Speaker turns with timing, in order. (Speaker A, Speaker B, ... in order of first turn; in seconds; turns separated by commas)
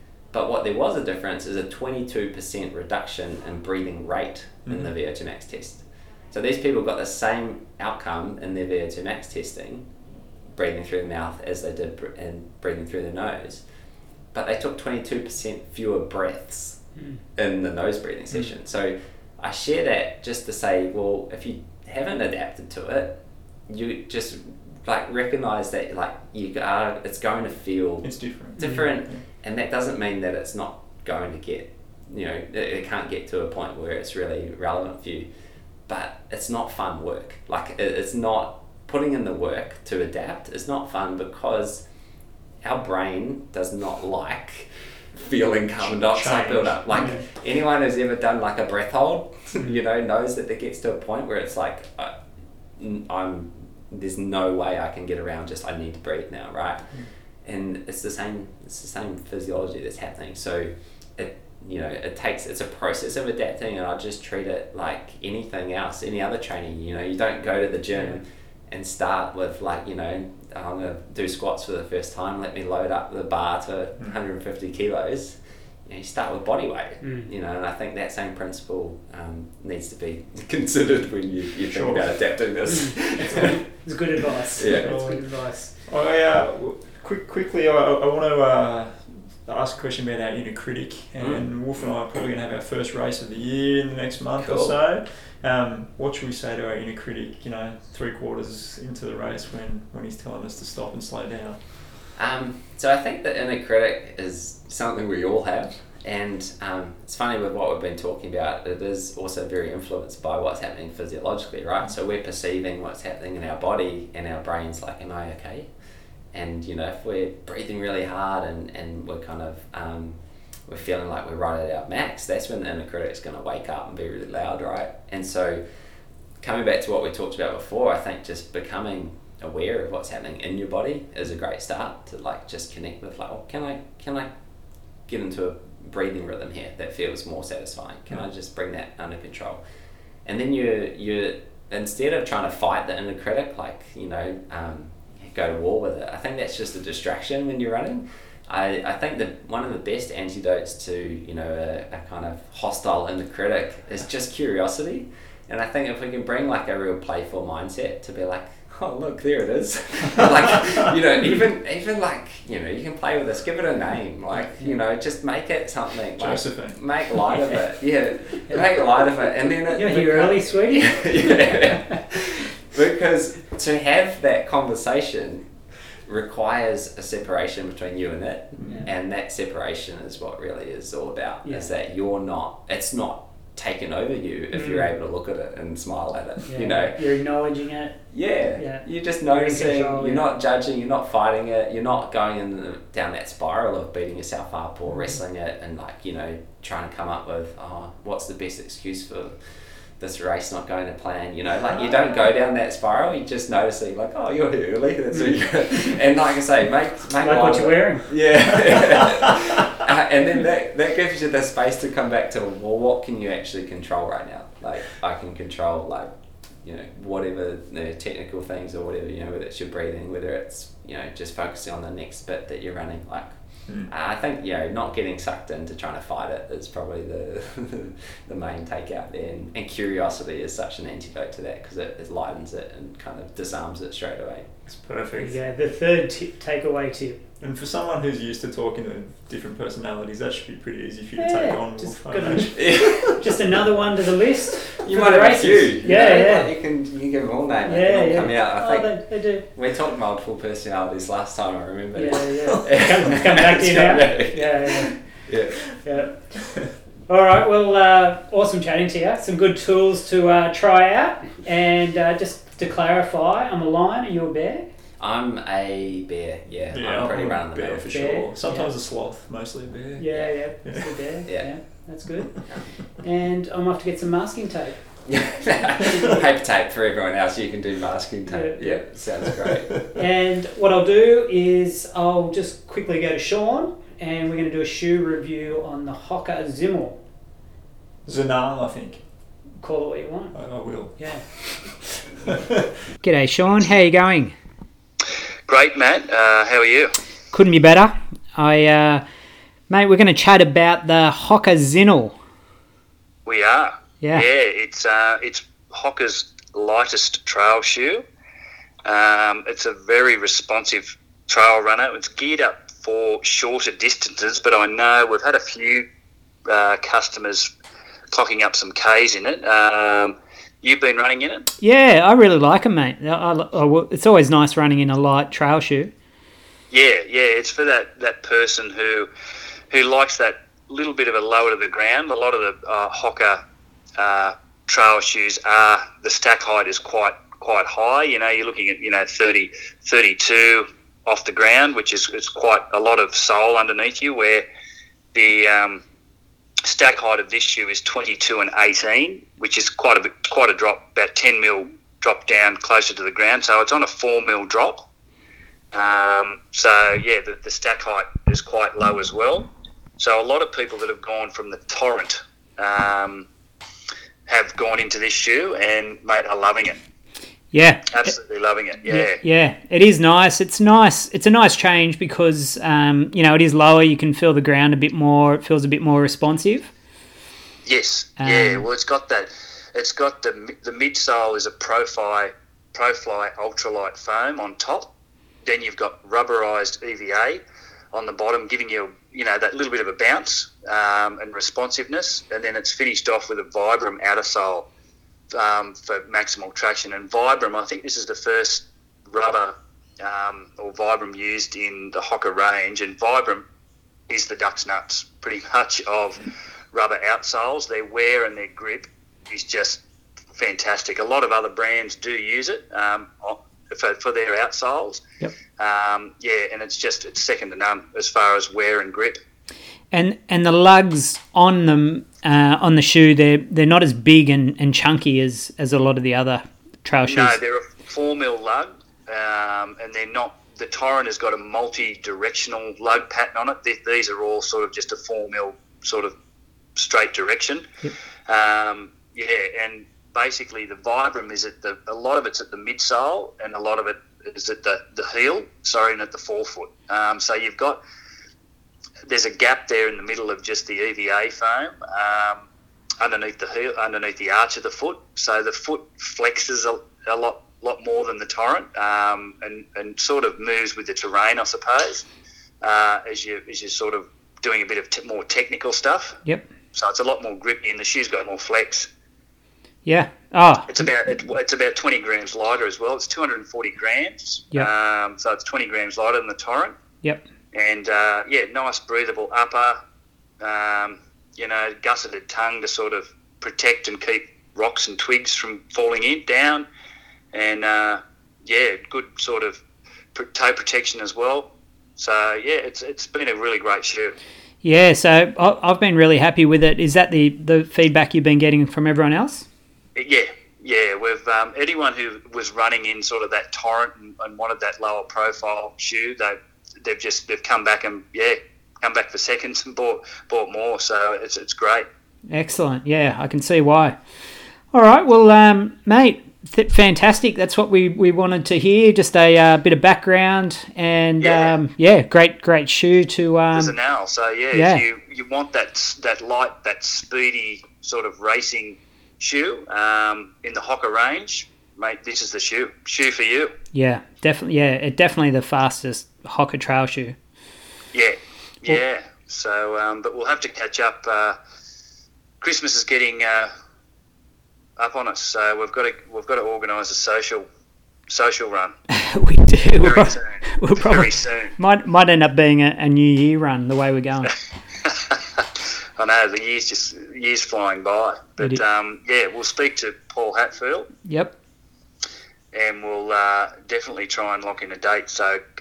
Speaker A: 0.3-9.9, Speaker A: 10.5-13.6, Speaker A: 14.3-16.8, Speaker A: 17.4-35.3, Speaker B: 28.0-29.2, Speaker C: 28.6-28.9, Speaker A: 35.9-41.8, Speaker A: 42.6-52.1, Speaker B: 46.1-47.2, Speaker A: 52.8-56.9, Speaker A: 57.4-83.6, Speaker C: 77.0-77.3, Speaker B: 81.7-82.1, Speaker C: 82.7-85.7, Speaker B: 83.2-83.5, Speaker A: 84.5-84.9, Speaker B: 84.7-101.6, Speaker A: 91.2-91.4, Speaker A: 94.4-94.7, Speaker A: 102.2-115.7, Speaker A: 116.3-125.6, Speaker A: 126.4-134.3, Speaker A: 135.1-139.6, Speaker A: 140.2-175.4, Speaker B: 166.2-166.8, Speaker C: 169.7-171.9, Speaker A: 176.1-187.0, Speaker B: 178.6-178.9, Speaker C: 184.5-184.9, Speaker C: 186.5-190.2, Speaker A: 188.1-199.3, Speaker A: 200.0-216.1, Speaker C: 207.2-208.1, Speaker B: 208.7-209.3, Speaker A: 216.6-234.5, Speaker B: 234.7-235.3, Speaker C: 235.2-237.2, Speaker B: 237.4-242.6, Speaker C: 241.2-246.5, Speaker A: 242.5-243.2, Speaker A: 244.8-255.8, Speaker C: 247.7-249.4, Speaker C: 251.9-255.1, Speaker C: 255.8-256.4, Speaker C: 257.1-264.7, Speaker A: 265.0-268.3, Speaker B: 266.7-270.9, Speaker C: 267.9-268.7, Speaker C: 270.0-274.8, Speaker A: 275.1-279.8, Speaker C: 275.8-276.2, Speaker C: 278.3-278.9, Speaker C: 279.9-287.0, Speaker B: 288.0-289.0, Speaker C: 289.6-290.3, Speaker B: 290.3-292.7, Speaker C: 290.9-291.3, Speaker C: 293.0-294.3, Speaker D: 295.5-296.9, Speaker C: 297.3-299.0, Speaker C: 299.7-302.1, Speaker D: 303.2-308.0, Speaker D: 308.8-315.9, Speaker D: 316.4-317.5, Speaker D: 318.1-321.5, Speaker C: 321.6-325.9, Speaker D: 326.7-329.1, Speaker D: 329.7-333.4, Speaker D: 334.0-344.4, Speaker D: 345.1-345.8, Speaker D: 346.6-354.9, Speaker D: 355.7-363.3, Speaker D: 364.3-366.8, Speaker C: 367.5-368.1, Speaker D: 367.9-369.2, Speaker C: 368.9-376.7, Speaker D: 377.6-384.9, Speaker C: 378.2-378.6, Speaker D: 385.4-387.4, Speaker D: 387.9-394.7, Speaker D: 395.3-403.4, Speaker D: 404.1-409.8, Speaker D: 410.3-415.0, Speaker D: 415.6-419.2, Speaker C: 419.9-427.4, Speaker D: 427.1-436.1, Speaker D: 436.8-437.7, Speaker D: 438.3-447.8, Speaker D: 449.1-452.4, Speaker D: 453.0-462.0, Speaker D: 462.6-466.2, Speaker D: 466.7-468.9, Speaker C: 469.8-470.7, Speaker D: 470.7-476.8, Speaker D: 477.5-479.8, Speaker D: 480.4-486.6, Speaker D: 487.3-489.6, Speaker D: 490.1-494.1, Speaker C: 494.6-499.4, Speaker D: 499.9-511.9, Speaker C: 512.3-514.0, Speaker C: 514.7-523.7, Speaker D: 521.2-521.5, Speaker D: 523.5-533.5, Speaker C: 524.5-524.8, Speaker C: 533.7-537.1, Speaker D: 537.9-541.4, Speaker D: 542.4-543.5, Speaker D: 544.8-547.5, Speaker D: 548.1-548.8, Speaker C: 548.9-554.3, Speaker D: 549.8-551.5, Speaker D: 554.8-560.9, Speaker C: 561.0-561.3, Speaker D: 562.5-565.4